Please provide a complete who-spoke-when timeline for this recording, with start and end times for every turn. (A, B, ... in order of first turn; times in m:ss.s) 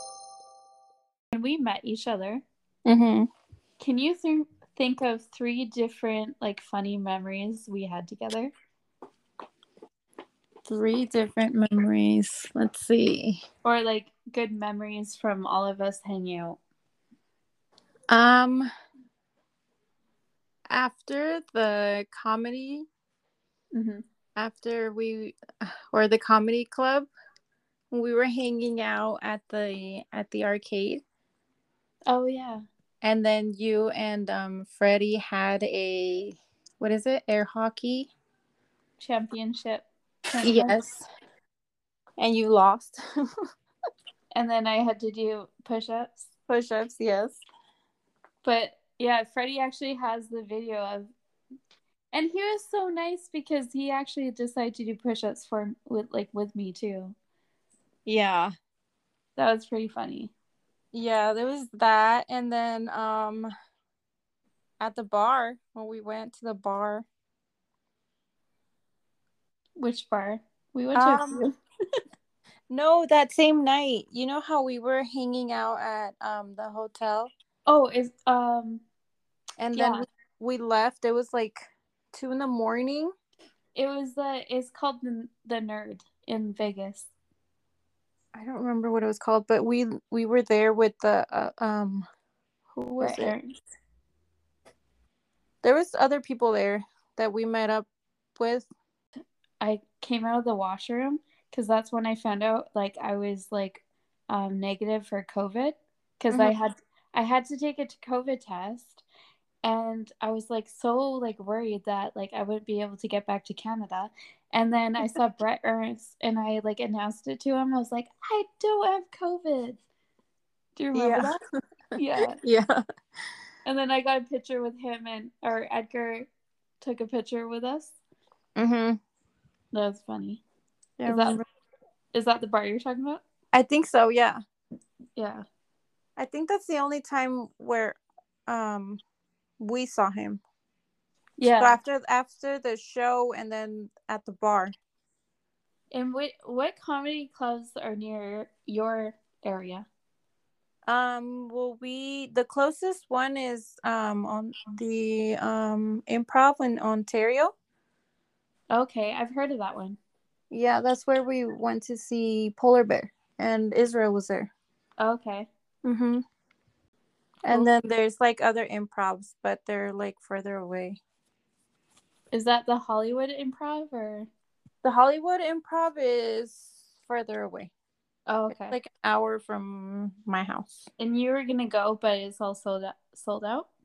0:01.3-0:02.4 A
0:02.8-0:03.3 B
0:03.8-0:08.5 A
0:10.7-0:13.4 B
0:13.6-0:16.6 A
0:18.1-0:18.7 B
0:20.7-0:22.8 B
0:23.7-0:24.0 A
0:24.4-0:27.1 B
0:27.9-0:31.0 B
0:32.1-0:32.6 A
0:33.0-0:38.1 B
0:39.0-0:40.8 A
0:40.4-0:41.0 B
0:42.2-0:43.0 B
0:44.3-0:46.3 A
0:46.5-0:47.4 B
0:48.4-0:51.1 A
0:52.1-0:57.1 A
0:58.0-0:58.5 B
0:59.4-1:00.3 A
1:00.9-1:03.5 B
1:04.8-1:07.0 B
1:09.8-1:11.6 A
1:10.9-1:11.4 B
1:12.7-1:17.3 B
1:17.7-1:18.8 A
1:19.6-1:23.1 B
1:19.7-1:20.0 A
1:23.7-1:27.1 A
1:28.3-1:32.0 B
1:32.7-1:33.3 B
1:33.0-1:33.5 A
1:35.6-1:37.8 B
1:38.4-1:38.7 B
1:39.6-1:49.0 A
1:49.6-1:59.8 A
2:00.8-2:01.4 A
2:00.9-2:01.4 B
2:02.0-2:02.4 A
2:02.4-2:02.8 B
2:03.6-2:06.3 A
2:06.8-2:08.0 A
2:08.6-2:09.0 B
2:09.7-2:10.4 A
2:11.0-2:11.4 B
2:11.0-2:11.4 A
2:12.1-2:13.2 A
2:13.5-2:14.4 B
2:15.2-2:15.4 A
2:16.2-2:19.0 B
2:19.6-2:20.4 B
2:21.4-2:21.8 A
2:21.6-2:24.7 B
2:25.9-2:29.8 A
2:30.9-2:37.5 B
2:38.7-2:40.0 A
2:40.5-2:44.5 B
2:45.0-2:45.5 A
2:45.8-2:46.2 B
2:47.4-2:51.0 B
2:52.3-2:54.3 A
2:54.8-2:57.7 B
2:58.3-2:58.8 A
2:58.5-3:00.8 B
3:01.0-3:03.7 A